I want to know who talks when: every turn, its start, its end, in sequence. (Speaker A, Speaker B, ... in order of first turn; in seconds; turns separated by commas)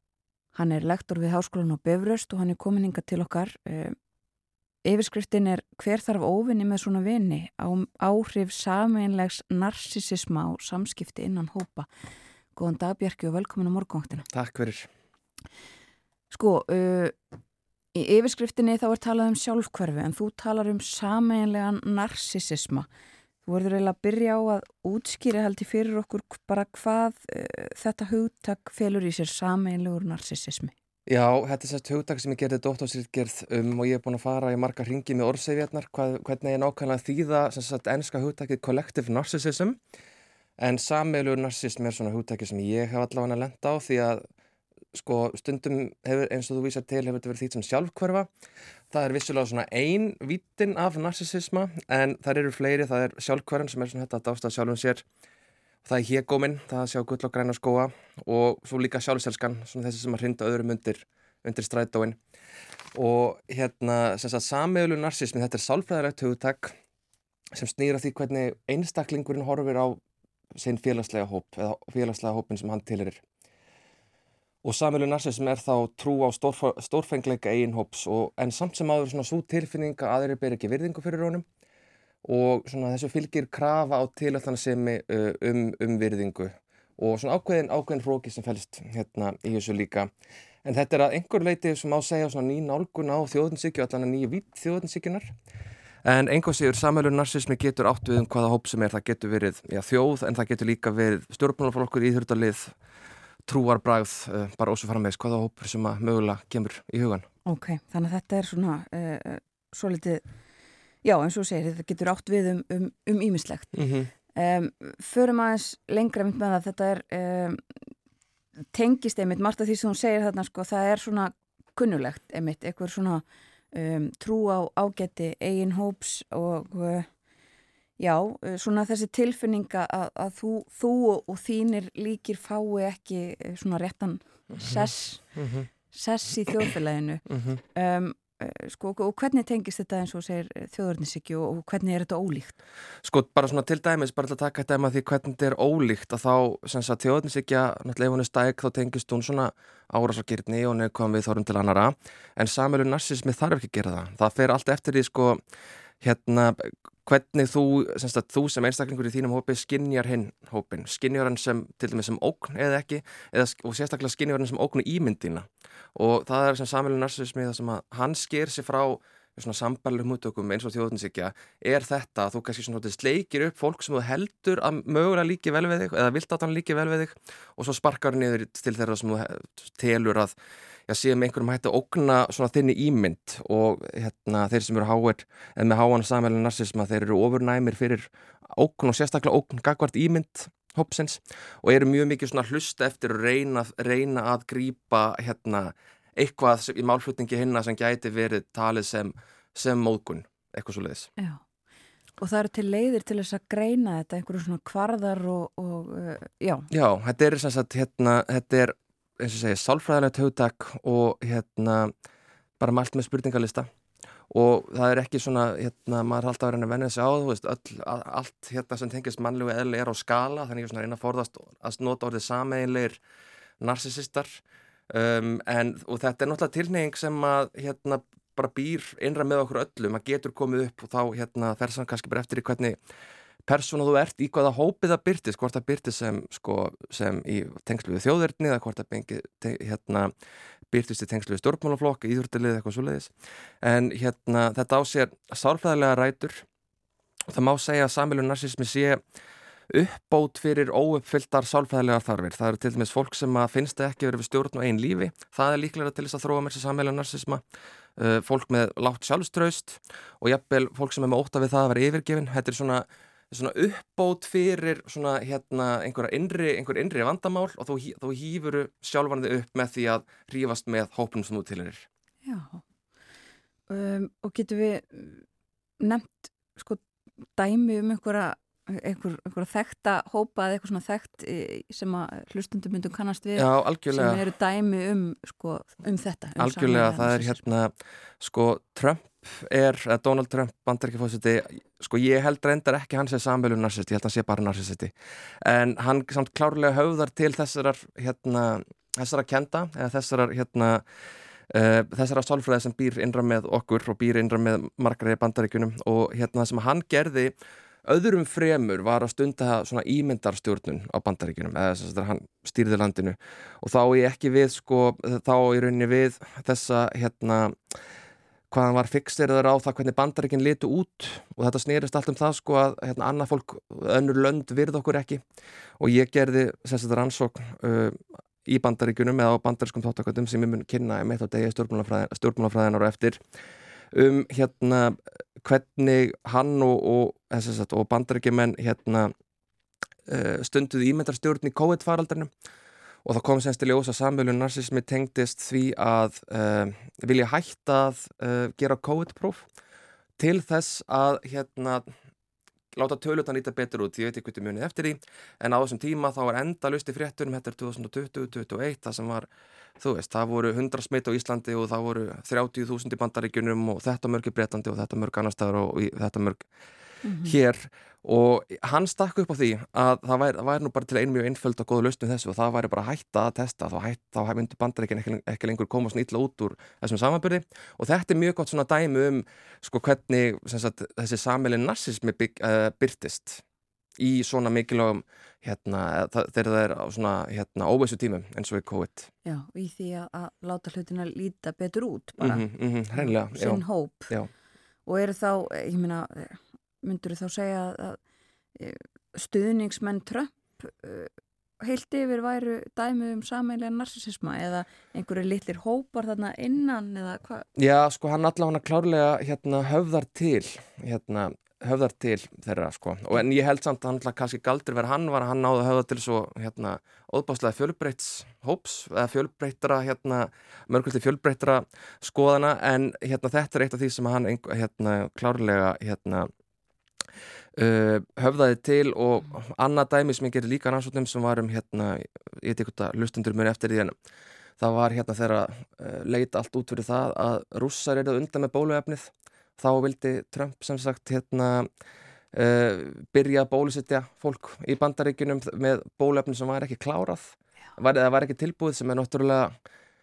Speaker A: 0.5-4.0, Speaker A: 4.8-11.9, Speaker A: 12.6-14.2, Speaker B: 14.3-14.9, Speaker A: 16.3-17.2, Speaker A: 17.9-22.9, Speaker A: 23.4-30.7, Speaker B: 31.1-39.8, Speaker B: 40.6-44.2, Speaker B: 44.9-48.3, Speaker B: 48.9-55.0, Speaker B: 55.9-62.2, Speaker B: 63.0-66.8, Speaker B: 67.5-70.0, Speaker B: 70.6-73.2, Speaker B: 74.6-81.5, Speaker B: 82.2-90.1, Speaker B: 90.6-95.3, Speaker B: 96.0-102.8, Speaker B: 103.5-107.3, Speaker A: 107.5-110.2, Speaker A: 111.0-113.7, Speaker B: 113.8-114.1, Speaker A: 114.3-117.9, Speaker A: 118.7-127.1, Speaker A: 128.0-135.3, Speaker B: 134.5-135.7, Speaker A: 135.9-142.6, Speaker B: 137.3-137.6, Speaker B: 143.0-155.4, Speaker B: 156.0-180.3, Speaker B: 180.9-201.1, Speaker A: 201.2-201.4, Speaker A: 202.2-206.7, Speaker B: 206.7-211.9, Speaker B: 212.6-213.7, Speaker B: 214.3-223.0, Speaker B: 223.6-232.8, Speaker B: 233.5-240.1, Speaker B: 240.7-246.4, Speaker B: 247.3-249.0, Speaker B: 249.7-257.4, Speaker B: 258.0-271.9, Speaker A: 272.3-272.6, Speaker A: 273.7-275.2, Speaker A: 275.8-276.8, Speaker A: 277.4-287.4, Speaker B: 283.4-284.2, Speaker B: 286.4-300.9, Speaker B: 301.5-307.4, Speaker B: 307.9-317.7, Speaker B: 318.5-325.2, Speaker B: 325.8-333.2, Speaker B: 333.9-339.1, Speaker B: 340.1-342.3, Speaker B: 343.0-349.4, Speaker B: 350.2-351.9, Speaker B: 352.7-366.5, Speaker A: 367.0-367.4, Speaker B: 367.2-383.4, Speaker B: 384.0-389.1, Speaker A: 389.2-392.4, Speaker B: 392.2-394.3, Speaker A: 393.0-394.1, Speaker A: 394.9-398.0, Speaker A: 398.6-401.1, Speaker A: 401.6-407.5, Speaker B: 407.6-426.3, Speaker B: 427.6-433.9, Speaker B: 434.6-441.7, Speaker B: 442.3-449.6